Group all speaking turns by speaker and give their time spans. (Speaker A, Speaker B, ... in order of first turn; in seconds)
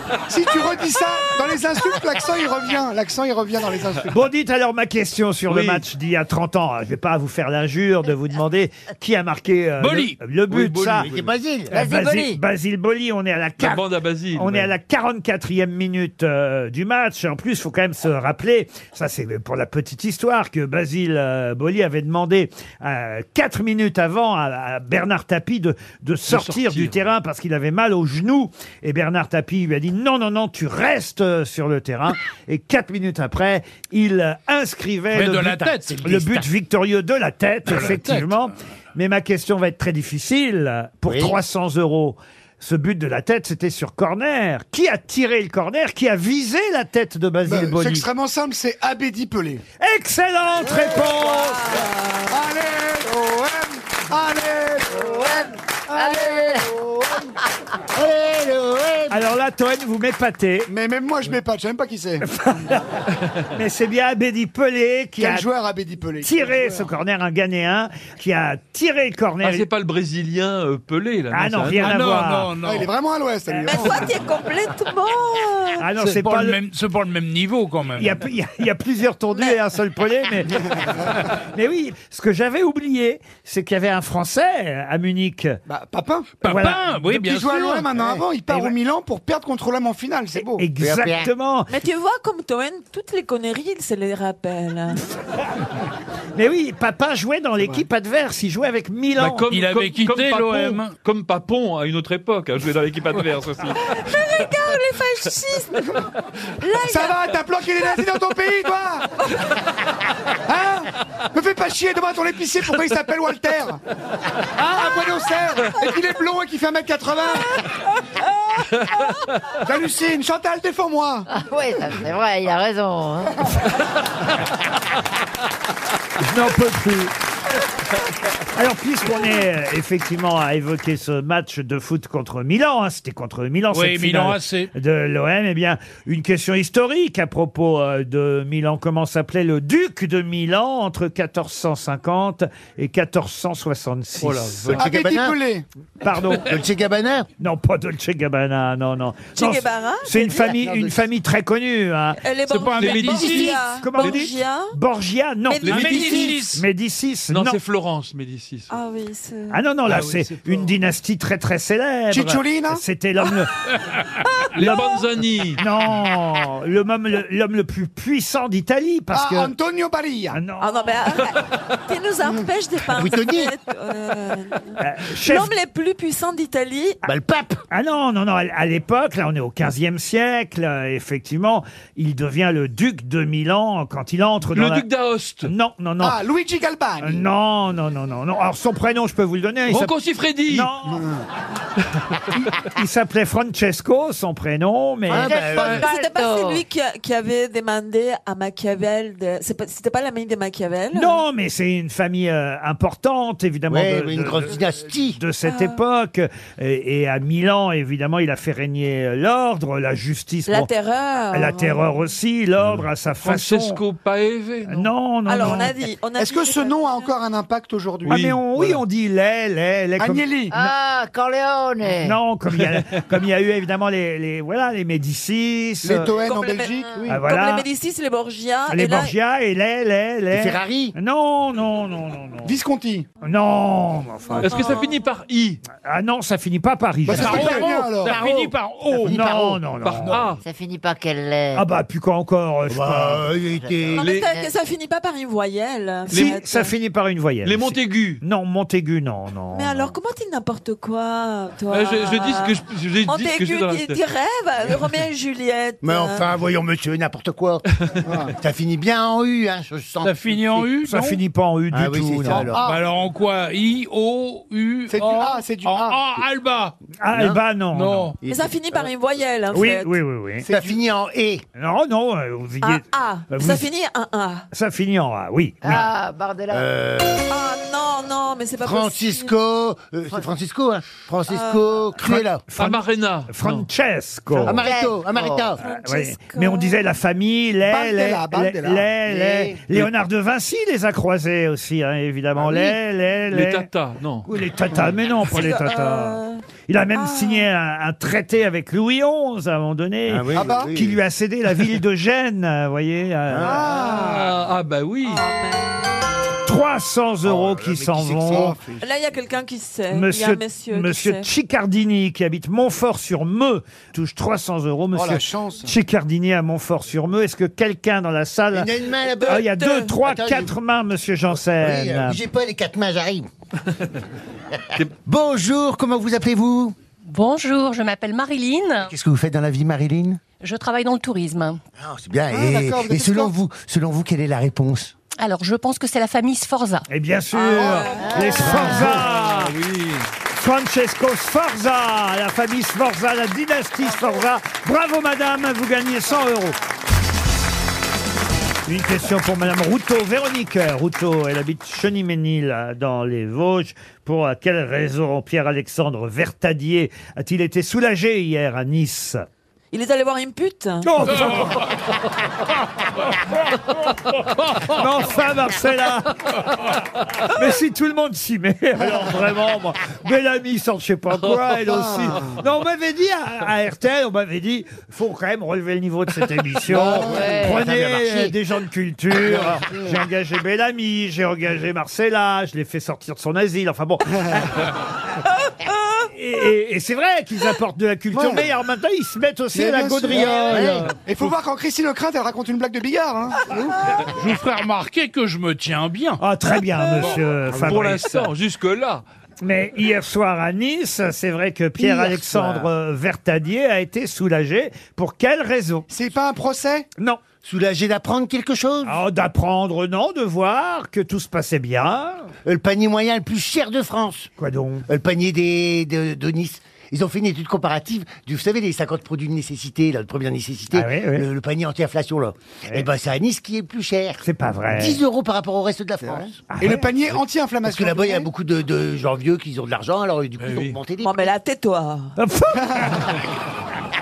Speaker A: 0.3-4.1, 47.5-49.6, 52.3-57.3, 60.7-62.2, 65.2-66.9, 72.6-74.1, 85.7-86.4, 87.1-90.7, 106.8-109.1, 110.5-113.8, 114.5-117.5, 119.7-121.3, 144.7-145.6, 162.1-162.8, 169.1-170.4, 186.0-187.3, 190.9-191.2, 216.2-218.2, 220.0-220.5, 225.8-227.2, 232.4-233.1, 237.1-238.2, 258.1-258.3, 264.9-266.0, 270.4-270.8, 287.7-288.9, 300.4-300.7, 303.4-304.3, 308.3-308.6, 314.9-315.7, 332.3-333.3, 371.6-372.4, 376.7-377.4, 379.3-380.0, 388.1-388.5, 389.5-393.8, 405.9-406.9, 426.1-428.3, 432.6-432.9
Speaker B: 4.1-11.1, 11.7-48.1, 49.8-51.8, 59.1-60.7, 62.2-63.0, 63.5-65.5, 66.2-69.7, 71.3-72.5, 75.8-76.6, 78.0-80.7, 81.2-85.6, 86.4-87.0, 90.4-91.7, 96.4-99.5, 126.2-127.1, 128.5-144.8, 146.0-146.5, 147.4-152.2, 152.8-157.6, 159.5-163.5, 165.6-169.5, 170.3-170.9, 174.8-175.5, 177.7-184.9, 185.4-186.2, 187.0-189.9, 190.5-191.1, 192.6-195.4, 200.9-210.7, 211.3-213.8, 214.7-215.7, 218.1-220.3, 222.0-226.1, 227.1-227.7, 228.7-232.6, 233.2-234.7, 235.8-240.2, 241.5-243.3, 246.1-249.9, 260.8-262.5, 267.0-268.1, 269.5-270.5, 271.6-273.6, 274.5-275.9, 282.0-284.6, 285.6-293.7, 294.3-303.7, 306.4-308.6, 309.9-318.7, 319.2-322.2, 336.9-339.6, 340.3-346.6, 348.7-359.2, 360.8-361.6, 364.7-366.1, 367.2-384.8, 386.1-390.9, 396.2-398.3, 399.4-405.9, 408.8-412.3, 414.4-414.9, 420.7-421.3, 424.2-425.0, 426.5-426.9, 432.2-433.1
Speaker C: 5.5-5.8, 10.5-11.3, 13.6-14.7, 26.3-27.0, 69.4-72.0, 99.2-103.8, 144.2-144.7, 152.8-154.3, 155.7-156.3, 157.3-158.7, 164.6-165.6, 184.6-185.5, 189.7-190.7, 213.2-214.9, 218.1-218.8, 222.6-222.9, 234.4-235.6, 239.8-240.4, 244.0-244.3, 247.4-248.2, 251.7-254.0, 282.6-283.7, 293.3-294.3, 303.8-305.3, 338.5-340.1, 397.5-399.0, 430.4-430.8
Speaker D: 9.8-10.1, 35.1-36.2, 37.7-38.5, 71.8-72.9, 76.0-78.2, 86.4-88.0, 99.5-100.9, 133.7-134.7, 152.5-153.6, 155.7-156.6, 159.9-160.7, 237.1-239.2, 260.0-261.2, 262.5-266.7, 267.7-268.2, 394.1-396.2
Speaker E: 11.0-11.7, 35.7-36.4, 41.1-41.4, 57.9-59.2, 90.8-91.3, 144.7-145.4, 146.3-147.3, 150.2-151.0, 172.9-173.5, 177.0-177.6, 195.1-195.9, 203.7-205.2, 230.3-230.9, 239.0-239.6, 242.7-244.1, 255.8-257.7, 258.4-260.7, 261.7-262.8, 267.1-267.4, 268.2-268.9, 270.5-271.4, 276.5-277.3, 278.6-282.4, 284.4-285.6, 289.1-289.6, 300.1-301.0, 303.3-303.7, 307.2-308.8, 318.5-320.5, 321.5-323.3, 325.1-326.8, 328.9-330.2, 331.8-334.9, 338.2-339.0, 376.8-378.4, 390.1-390.9, 401.8-402.7, 407.4-409.0, 412.4-414.3, 414.9-426.3, 427.6-431.3
Speaker F: 11.7-12.4, 55.0-56.7, 121.3-123.4, 195.2-196.6, 220.5-222.2, 240.4-241.7, 243.5-244.5, 275.6-276.7, 284.5-285.6, 338.0-338.8, 377.1-377.6
Speaker G: 51.0-52.4, 73.6-75.8, 91.7-95.0, 103.8-106.0, 106.6-107.2, 117.6-119.3, 149.4-150.2, 152.2-154.7, 155.5-156.4, 158.7-159.6, 164.4-165.1, 170.6-177.0, 195.3-201.2, 205.4-205.8, 210.5-211.9, 215.3-217.1, 226.1-229.2, 234.3-235.0, 243.9-246.7, 249.5-256.3, 268.3-270.0, 272.6-274.5, 277.3-279.3, 281.3-281.9, 285.6-286.8, 295.3-296.4, 296.9-297.5, 305.1-305.9, 308.8-311.3, 319.3-319.9, 337.4-338.6, 359.7-361.1, 385.4-386.0, 431.0-432.1
Speaker H: 327.1-328.9, 330.4-331.6, 335.2-336.9